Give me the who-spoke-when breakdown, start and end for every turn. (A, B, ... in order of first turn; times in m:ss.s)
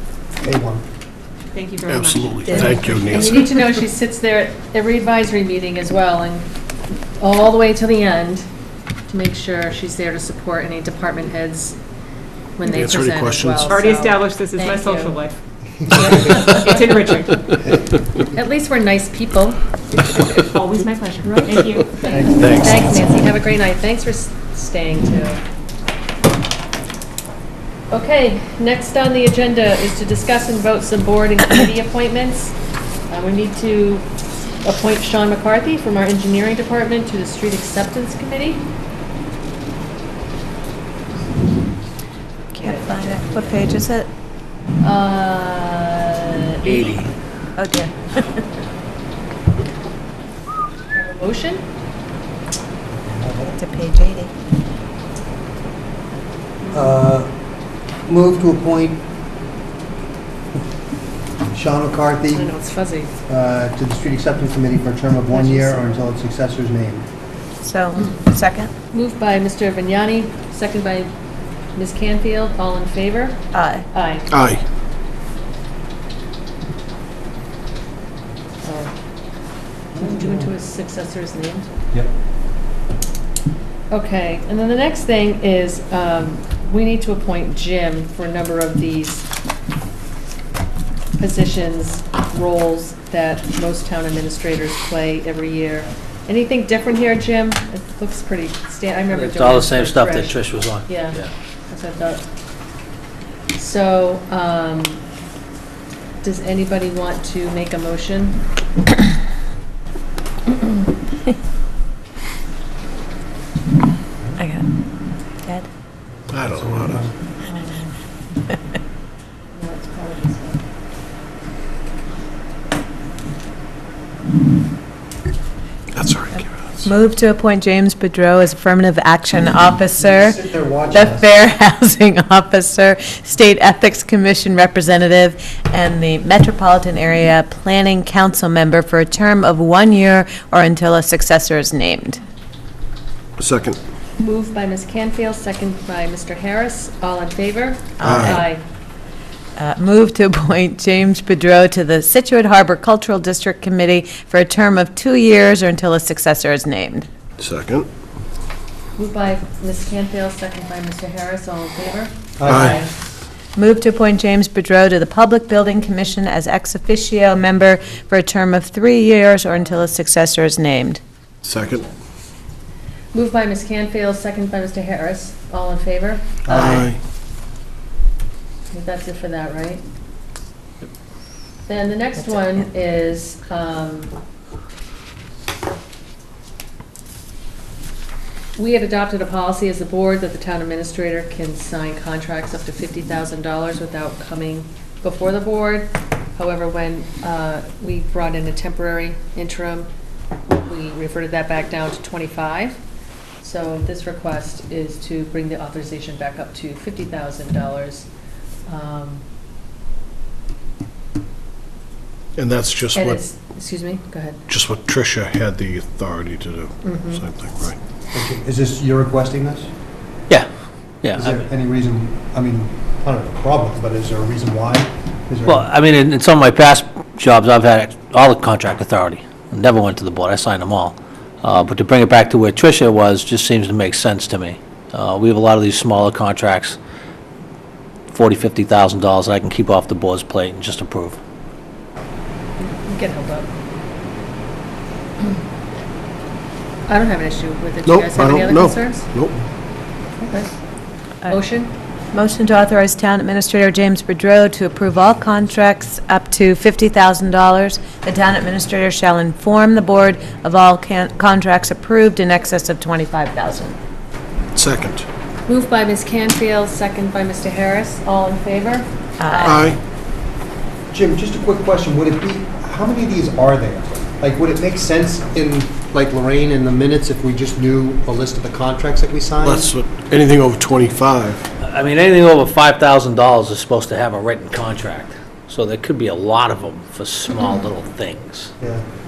0:00.4-0:00.8 A
0:01.5-0:03.0 B
0:01.8-0:03.6 C
0:02.4-0:06.5 D
0:07.2-0:08.4 D
0:09.1-0:11.8 D
0:12.6-0:15.2 D
0:12.7-0:13.8 C
0:13.6-0:15.3 B
0:15.9-0:17.0 D
0:16.0-0:17.6 B
0:18.3-0:19.6 D
0:20.3-0:22.3 B
0:21.3-0:25.4 D
0:22.0-0:22.5 A
0:22.3-0:23.1 C
0:27.9-0:32.5 D
0:33.1-0:34.0 D
0:34.6-0:38.6 D
0:42.5-0:44.1 E
0:42.6-0:43.6 D
0:44.8-0:46.9 D
0:46.6-0:47.1 F
0:47.6-0:48.2 E
0:50.9-0:51.6 D
0:52.9-0:53.6 A
0:53.6-0:54.3 E
0:56.7-0:57.3 A
0:58.0-0:59.0 A
1:01.5-1:02.5 A
1:02.3-1:03.2 D
1:03.3-1:07.0 A
1:05.3-1:05.9 E
1:07.6-1:08.7 E
1:08.9-1:11.1 D
1:11.8-1:14.3 D
1:13.5-1:13.9 E
1:14.3-1:14.6 C
1:18.6-1:18.9 D
1:19.9-1:20.5 A
1:20.0-1:21.7 D
1:23.9-1:29.3 D
1:31.2-1:42.2 D
1:39.1-1:41.3 F
1:43.5-1:45.0 D
1:46.2-1:48.4 D
1:54.4-1:54.6 E
1:56.3-1:57.1 A
1:56.3-1:57.1 C
1:57.4-1:57.9 D
1:59.5-2:00.6 D
2:05.9-2:06.9 C
2:06.8-2:22.2 E
2:10.0-2:11.3 A
2:23.4-2:23.8 C
2:24.2-2:28.6 D
2:28.0-2:28.4 E
2:28.0-2:28.4 C
2:29.6-2:37.1 E
2:37.4-2:37.9 C
2:39.0-2:42.9 D
2:42.4-2:42.8 A
2:42.5-2:42.8 C
2:43.6-2:51.0 E
2:51.4-2:51.9 C
2:53.1-2:56.3 D
2:56.5-2:56.9 A
2:56.5-2:57.0 C
2:58.7-2:59.8 D
3:01.6-3:04.1 D
3:02.2-3:02.6 E
3:08.6-3:19.9 D
3:20.5-3:22.8 D
3:23.4-3:28.0 D
3:28.7-3:29.2 D
3:32.4-3:33.2 C
3:32.9-3:34.4 D
3:34.5-3:37.8 C
3:36.8-3:37.2 D
3:38.1-3:39.7 A
3:41.0-3:41.4 F
3:41.1-3:45.7 A
3:45.4-3:56.8 F
3:58.1-4:01.2 F
4:02.6-4:03.5 D
4:06.9-4:09.1 D
4:07.8-4:09.4 C
4:11.3-4:11.7 D
4:12.1-4:23.8 E
4:24.5-4:25.0 C
4:25.5-4:28.8 D
4:29.2-4:29.8 E
4:29.4-4:29.8 C
4:30.9-4:39.7 A
4:39.4-4:41.4 C
4:41.6-4:48.5 F
4:48.6-4:48.8 A